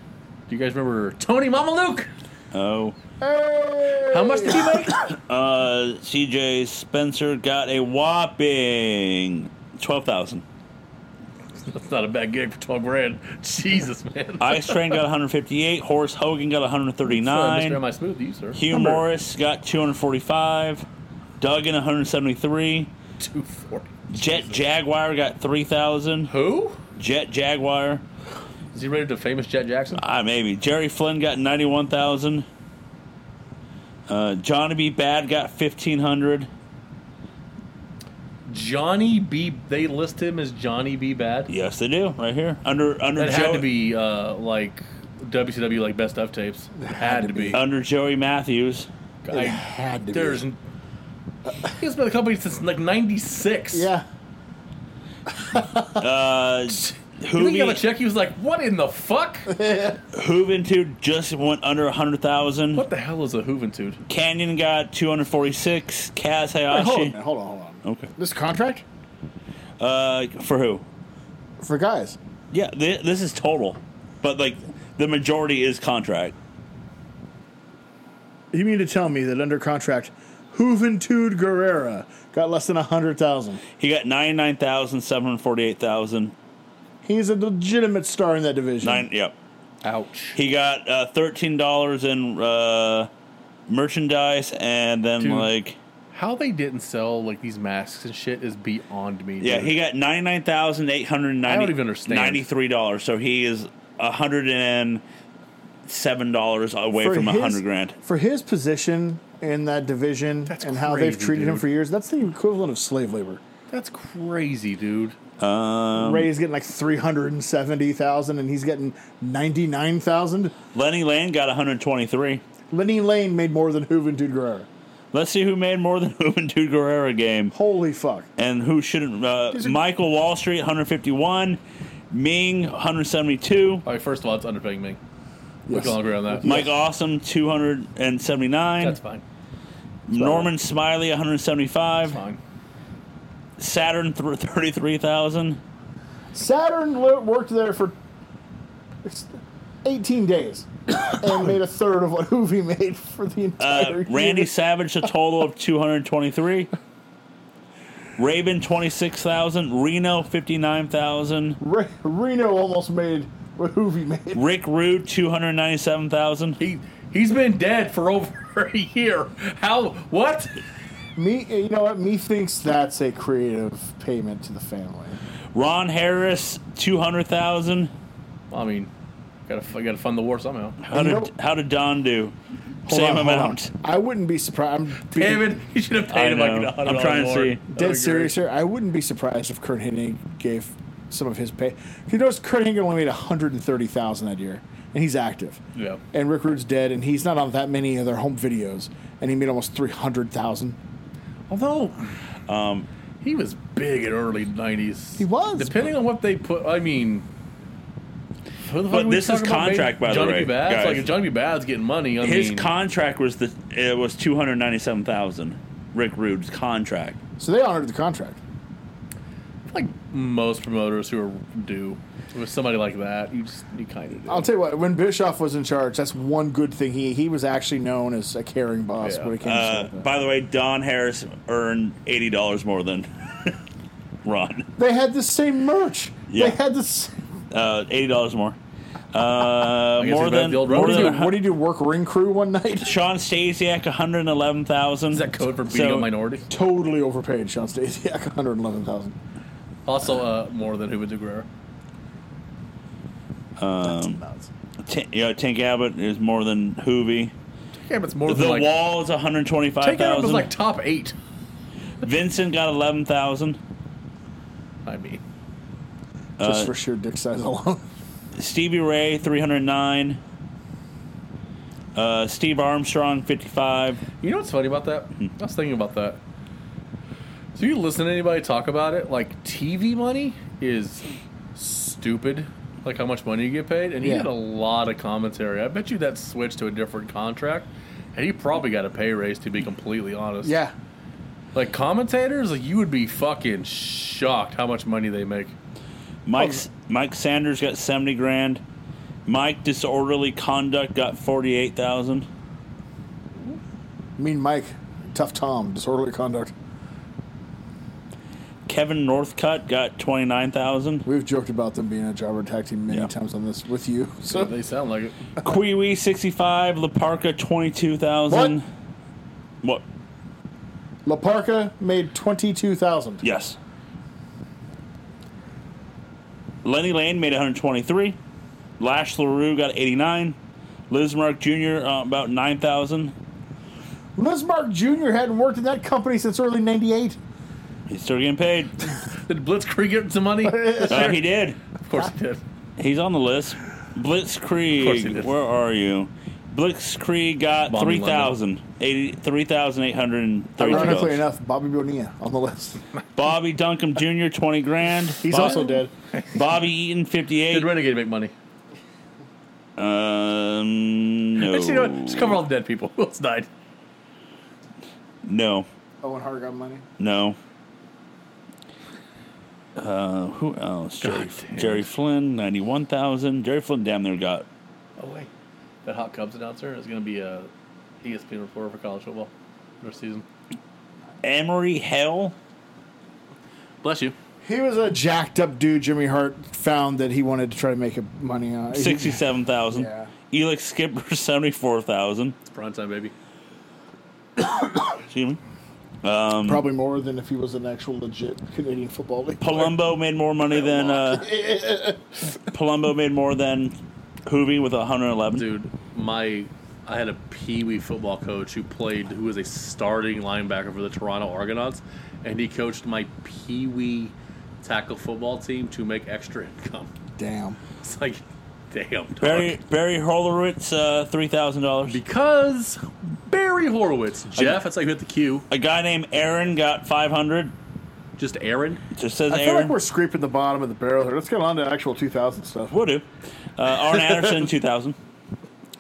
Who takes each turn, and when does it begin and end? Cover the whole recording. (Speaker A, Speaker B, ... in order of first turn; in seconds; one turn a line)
Speaker A: 0.5-2.1
Speaker B: 2.5-3.0
Speaker C: 3.2-4.8
Speaker A: 4.1-5.0
Speaker B: 4.9-10.4
Speaker A: 11.6-15.0
Speaker B: 14.4-17.8
Speaker A: 17.1-19.0
Speaker B: 18.6-20.9
Speaker B: 21.4-22.9
Speaker A: 23.2-24.6
Speaker B: 24.1-26.3
Speaker A: 26.3-26.8
Speaker B: 27.0-28.0
Speaker A: 28.7-30.0
Speaker B: 30.0-32.5
Speaker B: 34.1-36.5
Speaker A: 38.5-41.5
Speaker B: 41.5-43.7
Speaker A: 43.2-47.6
Speaker C: 46.8-47.6
Speaker B: 47.5-48.9
Speaker A: 49.2-50.6
Speaker C: 49.3-50.4
Speaker A: 51.6-53.9
Speaker C: 53.7-54.0
Speaker C: 55.5-56.0
Speaker B: 56.0-57.8
Speaker A: 57.3-59.6
Speaker C: 59.5-60.0
Speaker B: 60.1-62.9
Speaker A: 62.7-64.0
Speaker B: 64.1-67.2
Speaker C: 66.7-68.8
Speaker B: 67.8-68.1
Speaker B: 69.8-70.8
Speaker C: 71.6-72.2
Speaker B: 72.5-76.3
Speaker C: 78.5-83.6
Speaker B: 83.8-86.3
Speaker C: 87.0-89.1
Speaker B: 88.8-89.3
Speaker A: 89.8-90.4
Speaker B: 90.3-93.1
Speaker B: 93.7-95.8
Speaker A: 95.2-95.5
Speaker A: 96.1-99.7
Speaker B: 99.4-105.0
Speaker A: 101.5-102.4
Speaker B: 105.9-108.0
Speaker C: 107.0-113.4
Speaker A: 110.5-111.7
Speaker A: 113.7-115.2
Speaker B: 115.4-116.3
Speaker C: 116.0-120.6
Speaker B: 120.7-122.4
Speaker C: 122.7-124.7
Speaker B: 125.1-127.5
Speaker C: 127.5-128.3
Speaker B: 128.4-131.6
Speaker C: 129.5-129.8
Speaker B: 132.1-133.8
Speaker A: 133.8-135.0
Speaker C: 135.7-136.7
Speaker A: 135.7-136.6
Speaker B: 136.4-139.0
Speaker A: 138.8-139.2
Speaker B: 140.1-142.2
Speaker C: 140.1-140.5
Speaker A: 142.1-142.4
Speaker B: 143.6-145.6
Speaker C: 146.3-148.0
Speaker C: 149.0-154.5
Speaker B: 153.6-156.7
Speaker B: 158.2-161.6
Speaker C: 161.6-164.4
Speaker B: 164.3-166.6
Speaker A: 166.6-170.6
Speaker C: 171.2-175.2
Speaker B: 175.5-177.9
Speaker A: 178.5-178.9
Speaker A: 179.5-180.8
Speaker B: 180.8-182.3
Speaker C: 180.9-181.3
Speaker B: 182.9-183.7
Speaker C: 182.9-185.6
Speaker A: 185.1-188.4
Speaker B: 186.1-187.6
Speaker C: 187.7-195.6
Speaker A: 195.8-196.0
Speaker C: 196.1-200.8
Speaker A: 201.5-202.1
Speaker B: 202.5-202.9
Speaker A: 203.2-207.2
Speaker C: 205.2-205.8
Speaker A: 208.7-212.7
Speaker B: 208.9-211.1
Speaker B: 212.2-217.2
Speaker C: 217.4-218.4
Speaker A: 219.7-224.5
Speaker C: 224.3-230.1
Speaker A: 229.0-229.3
Speaker B: 229.4-233.6
Speaker B: 234.2-234.7
Speaker C: 234.8-237.2
Speaker B: 236.3-236.6
Speaker B: 237.5-238.6
Speaker B: 239.1-241.5
Speaker A: 240.0-241.2
Speaker C: 240.7-243.0
Speaker B: 242.8-246.1
Speaker A: 245.1-246.5
Speaker C: 246.5-249.2
Speaker A: 249.9-251.5
Speaker B: 253.6-254.2
Speaker C: 253.8-254.5
Speaker B: 254.8-257.3
Speaker A: 257.8-258.7
Speaker B: 258.3-260.5
Speaker A: 259.8-261.1
Speaker B: 262.0-263.6
Speaker A: 264.9-265.2
Speaker B: 266.4-266.7
Speaker C: 266.4-267.9
Speaker B: 268.4-270.2
Speaker B: 271.9-274.0
Speaker A: 274.2-276.2
Speaker A: 277.6-290.6
Speaker C: 284.0-284.3
Speaker C: 290.4-290.7
Speaker A: 291.5-295.5
Speaker B: 296.3-298.6
Speaker C: 296.4-296.6
Speaker B: 299.3-302.3
Speaker C: 304.2-306.5
Speaker B: 308.7-311.1
Speaker C: 311.1-314.5
Speaker A: 314.3-315.2
Speaker B: 315.4-318.6
Speaker C: 318.3-318.6
Speaker C: 321.1-323.2
Speaker B: 323.2-323.6
Speaker B: 326.6-328.2
Speaker B: 328.8-330.4
Speaker B: 330.9-333.1
Speaker C: 334.2-337.2
Speaker B: 337.9-338.9
Speaker A: 339.1-342.4
Speaker C: 340.4-341.2
Speaker B: 340.8-341.6
Speaker B: 342.8-351.2
Speaker A: 344.8-345.3
Speaker A: 347.7-348.3
Speaker C: 350.6-352.8
Speaker B: 353.2-355.7
Speaker C: 355.2-355.9
Speaker A: 355.4-355.6
Speaker B: 356.3-357.7
Speaker A: 357.5-358.3
Speaker B: 359.8-362.4
Speaker A: 361.4-363.5
Speaker B: 365.2-365.7
Speaker C: 366.0-366.9
Speaker B: 367.0-367.4
Speaker B: 369.8-374.4
Speaker A: 371.0-371.9
Speaker A: 375.0-375.3
Speaker A: 375.9-377.5
Speaker A: 378.0-380.2
Speaker B: 381.2-382.4
Speaker A: 383.8-384.1
Speaker C: 384.4-390.1
Speaker B: 388.7-392.4
Speaker A: 392.5-393.1
Speaker B: 394.4-395.4
Speaker B: 396.0-396.6
Speaker C: 396.4-399.8
Speaker B: 399.4-401.3
Speaker C: 400.6-402.2
Speaker B: 402.5-403.7
Speaker B: 404.3-405.4
Speaker A: 405.3-416.9
Speaker C: 417.2-417.6
Speaker A: 417.8-419.6
Speaker B: 419.2-422.0
Speaker A: 421.9-425.4
Speaker B: 425.5-427.5
Speaker A: 428.2-428.8
Speaker B: 429.0-429.8
Speaker C: 429.3-432.8
Speaker B: 432.7-433.1
Speaker B: 433.6-435.0